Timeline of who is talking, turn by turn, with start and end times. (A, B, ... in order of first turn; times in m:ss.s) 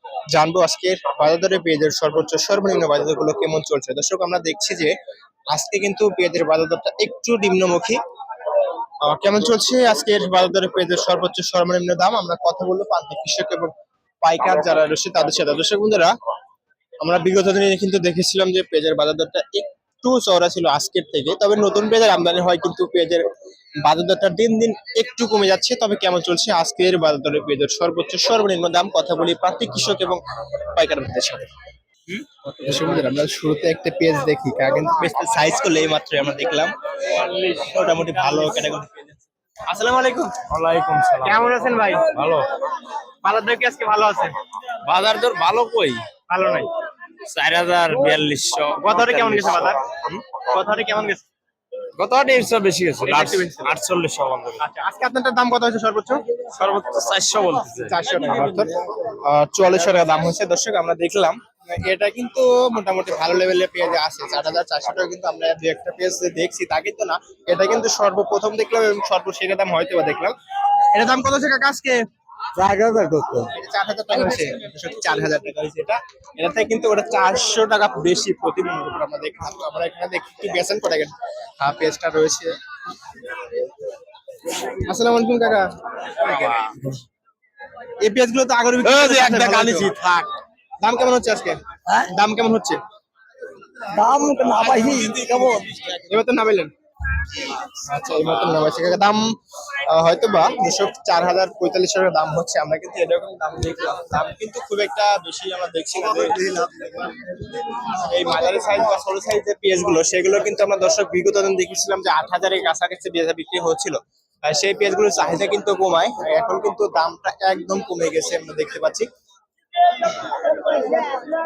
0:00.3-0:04.9 A
0:05.5-0:08.0 A
0:09.0-0:16.1 A
0:17.0-0:23.2 A
0:23.8-0:31.5 A
0:32.1-0:32.8 B
0:32.6-0:40.4 A
0:40.5-0:41.5 B
0:41.2-0:42.1 A
0:42.0-0:42.5 B
0:43.2-0:44.4 A
0:44.8-0:46.1 B
0:46.3-0:46.7 A
0:47.2-0:50.2 B
0:48.8-0:51.2 A
0:51.9-0:54.6 B
0:53.0-0:53.7 A
0:54.6-0:56.2 A
0:56.5-0:58.0 B
0:57.8-1:10.4 A
1:10.9-1:12.0 A
1:12.6-1:13.2 B
1:12.8-1:13.2 C
1:13.3-1:22.5 A
1:24.6-1:25.6 A
1:26.2-1:26.6 A
1:26.2-1:26.9 B
1:28.0-1:32.8 A
1:28.8-1:30.0 B
1:33.8-1:35.7 C
1:34.6-1:35.3 B
1:34.7-1:36.7 A
1:37.4-1:59.1 A